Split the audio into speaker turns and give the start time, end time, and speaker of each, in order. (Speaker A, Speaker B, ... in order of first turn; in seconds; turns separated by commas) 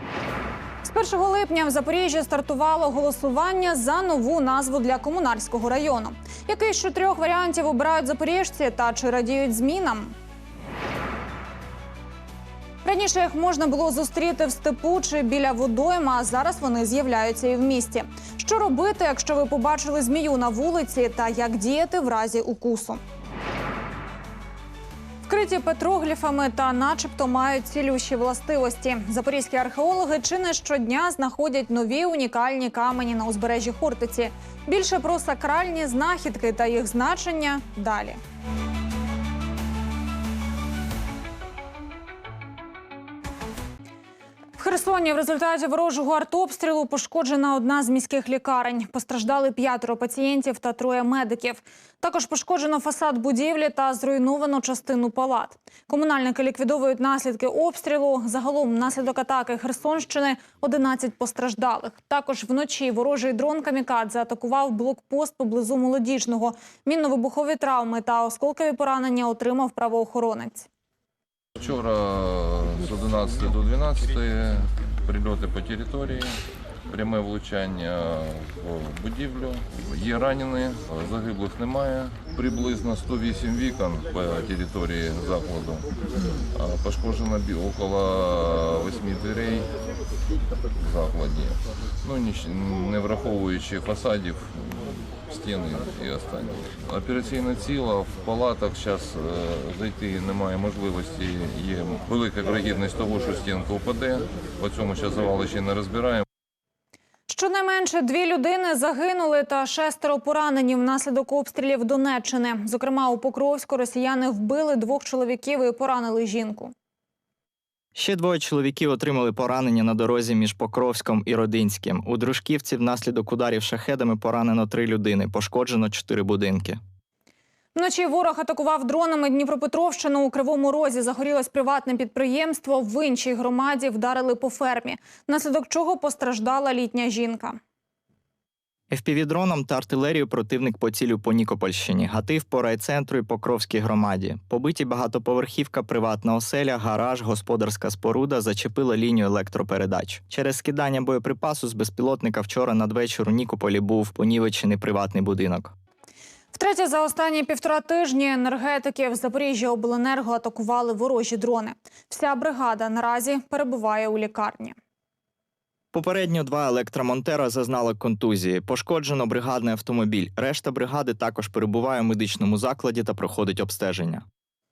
Speaker A: 0.8-10.1, Speaker A: 12.8-23.0, Speaker A: 25.3-38.2, Speaker A: 44.6-70.7, Speaker B: 71.6-76.4, Speaker B: 76.9-85.9, Speaker B: 86.5-89.7, Speaker B: 90.8-106.2, Speaker A: 107.3-116.7, Speaker C: 118.0-126.8, Speaker A: 127.8-137.6, Speaker C: 138.9-155.7, Speaker A: 156.5-164.8, Speaker C: 165.9-174.2